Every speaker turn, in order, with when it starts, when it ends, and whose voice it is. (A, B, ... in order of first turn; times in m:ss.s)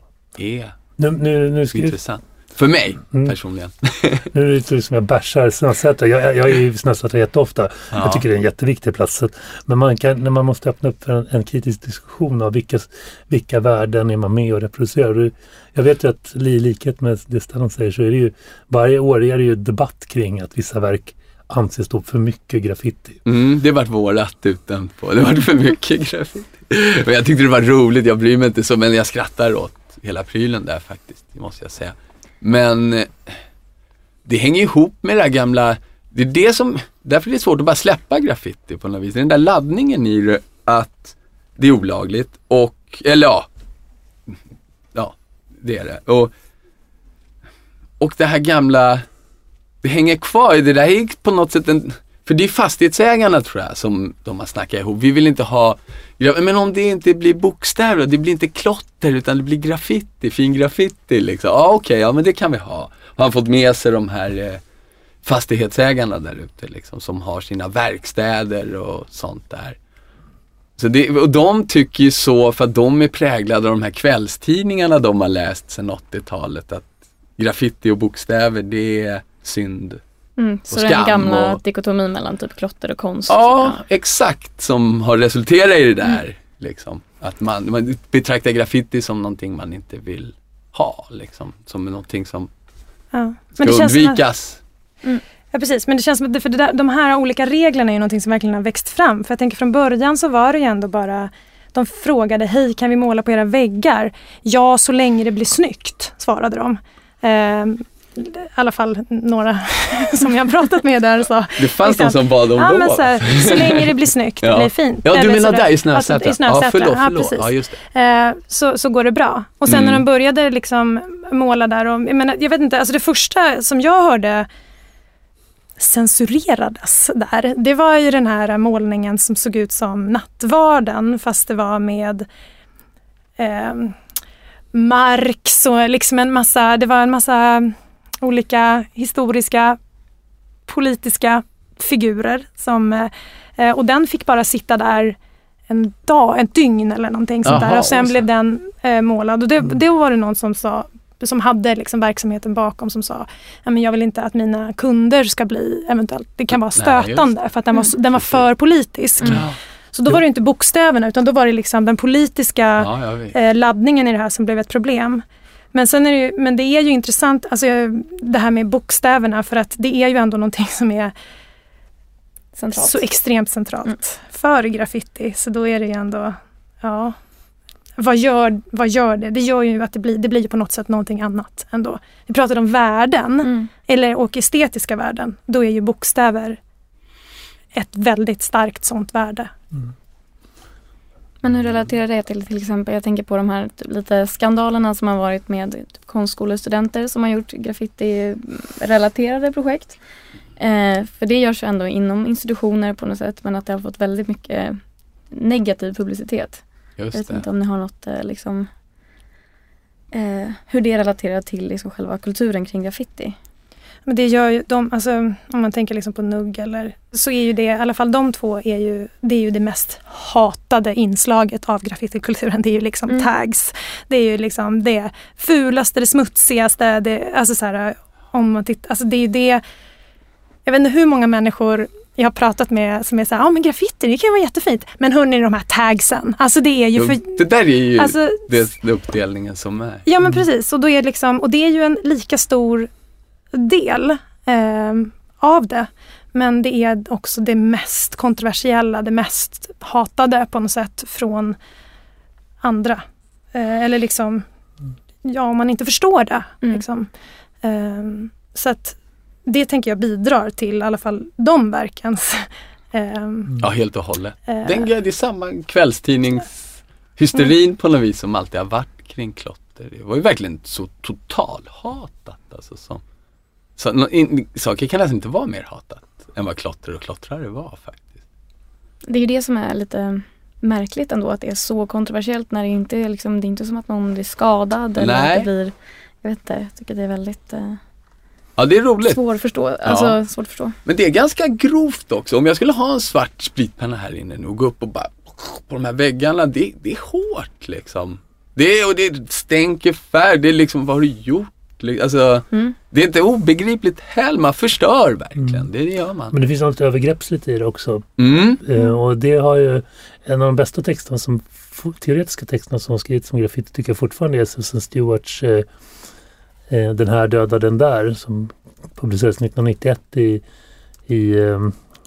0:00.4-0:00.8 A
0:01.0-0:02.0 B
0:01.7-0:04.3 A
0:04.3-0:23.2 B
0:07.9-0:08.2 A
0:23.2-0:33.4 A
0:34.3-0:43.5 A
0:44.9-0:46.3 A
0:48.0-0:49.1 A
0:49.8-1:04.6 A
1:05.2-1:09.8 A
1:10.8-1:20.0 A
1:20.4-1:23.8 C
1:20.7-1:21.6 A
1:23.3-1:32.5 A
1:33.1-1:34.2 D
1:33.6-1:34.6 A
1:35.5-2:04.5 D
1:51.6-1:57.8 A
1:59.7-2:00.0 A
2:05.8-2:12.3 D
2:13.4-2:14.0 D
2:14.7-2:19.8 D
2:20.7-2:25.2 D
2:25.7-2:51.1 D
2:27.4-2:28.2 A
2:36.5-2:37.3 A
2:38.1-2:38.5 A
2:39.2-2:39.6 A
2:42.8-2:43.3 A
2:52.6-2:53.0 C
2:52.8-2:57.2 D
2:58.0-3:06.6 D
3:03.4-3:03.7 C
3:07.7-3:09.5 D
3:11.4-3:20.0 C
3:20.6-3:24.8 C
3:25.3-3:28.7 C
3:27.0-3:27.4 A
3:30.1-3:33.4 C
3:34.1-3:49.6 D
3:50.6-3:57.4 D
3:57.0-4:00.1 A
3:58.0-3:58.5 D
4:00.1-4:02.9 D
4:03.5-4:11.6 D
4:12.6-4:14.4 D
4:15.2-4:17.1 D
4:17.6-4:23.6 D
4:23.6-4:26.6 A
4:24.5-4:24.9 D
4:27.2-4:33.0 A
4:33.8-4:38.2 A
4:39.1-4:47.8 C
4:45.0-4:45.5 A
4:48.6-4:49.2 A
4:49.0-4:50.8 C
4:49.8-4:50.2 A
4:50.8-5:06.4 A
5:06.3-5:08.1 B
5:08.2-5:08.6 A
5:08.6-5:15.7 B
5:16.7-5:20.4 B
5:21.1-5:21.8 B